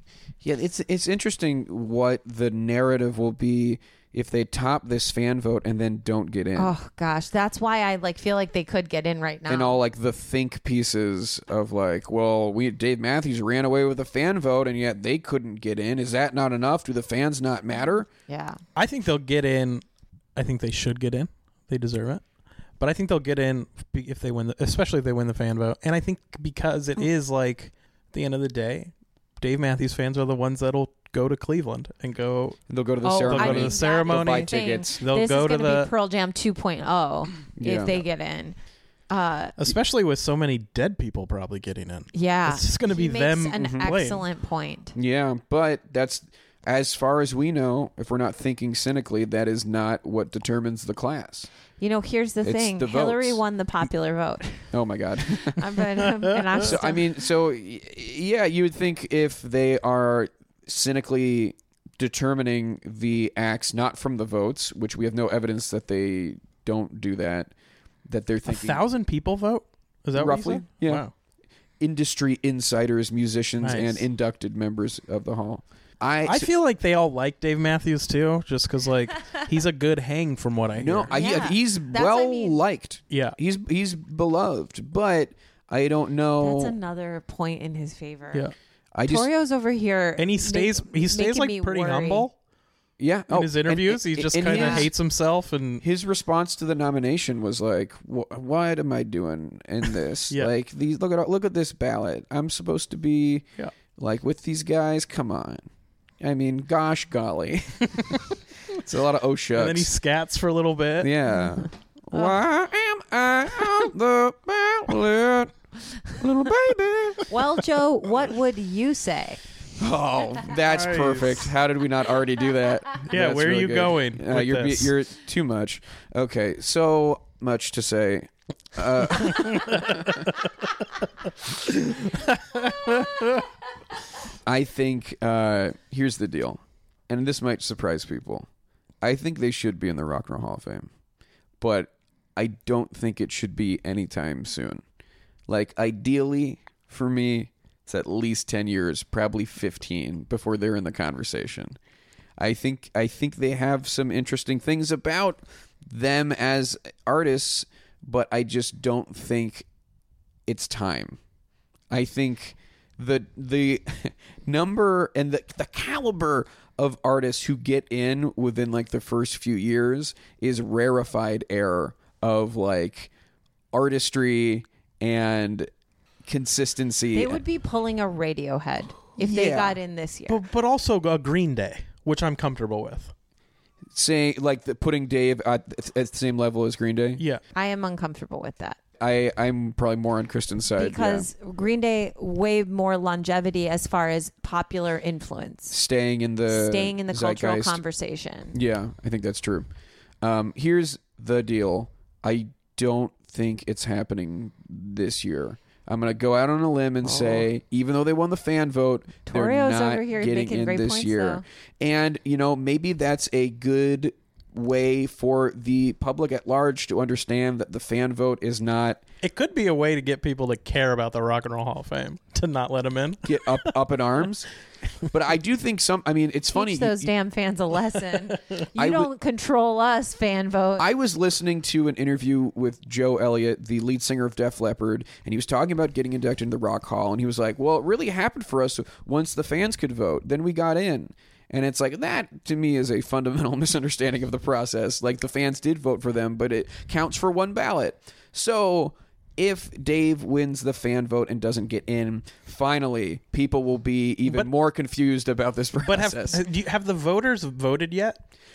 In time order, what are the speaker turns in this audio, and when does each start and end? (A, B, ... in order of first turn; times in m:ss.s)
0:00.4-0:06.7 A
0:06.6-0:09.8 B
0:09.5-0:18.1 A
0:18.3-0:18.6 B
0:18.8-0:19.8 C
0:20.4-0:22.2 C
0:22.8-0:32.6 C
0:32.7-0:35.0 A
0:33.0-0:38.6 B
0:33.2-0:35.9 C
0:37.6-0:38.0 A
0:39.1-0:39.5 B
0:39.6-0:44.2 C
0:42.1-0:44.9 B
0:44.9-0:51.5 A
0:51.8-0:54.7 B
0:52.4-0:53.4 A
0:54.7-0:55.6 A
0:55.5-0:57.0 B
0:56.6-1:07.5 A
1:08.0-1:08.8 A
1:08.5-1:11.1 C
1:10.1-1:11.0 A
1:11.8-1:16.5 A
1:13.6-1:14.0 C
1:16.2-1:21.1 C
1:20.8-1:26.7 A
1:21.1-1:22.6 B
1:23.1-1:23.4 C
1:26.4-1:28.5 B
1:28.9-1:29.3 A
1:29.0-1:32.3 B
1:30.2-1:32.3 C
1:33.0-1:34.9 A
1:33.3-1:35.8 C
1:34.5-1:34.9 B
1:35.8-1:45.7 A
1:46.2-1:48.1 A
1:48.7-1:49.9 A
1:49.6-1:51.1 C
1:51.0-1:55.5 A
1:56.1-1:57.3 A
1:57.3-1:59.4 B
1:59.8-2:10.2 A
2:00.7-2:01.5 C
2:03.1-2:04.9 C
2:09.4-2:10.3 C
2:11.7-2:13.4 C
2:14.4-2:18.5 A
2:19.0-2:20.9 A
2:21.6-2:24.8 A
2:25.5-2:31.8 A
2:32.4-2:39.7 A
2:40.5-2:41.2 A
2:41.9-2:53.1 A
2:53.7-2:55.7 A
2:56.2-2:57.4 A
2:57.1-3:00.4 B
2:59.2-2:59.8 A
3:00.3-3:03.1 C
3:03.9-3:07.2 A
3:07.5-3:08.8 B
3:09.0-3:11.3 A
3:10.8-3:15.7 B
3:15.7-3:17.8 A
3:16.5-3:18.6 B
3:18.5-3:19.7 A
3:20.2-3:39.0 A
3:27.0-3:27.4 B
3:29.3-3:31.4 B
3:39.2-3:43.7 C
3:43.2-3:44.5 A
3:45.0-3:47.1 A
3:46.5-3:50.8 B
3:48.8-3:49.1 A
3:50.8-4:16.4 A
4:15.8-4:18.2 C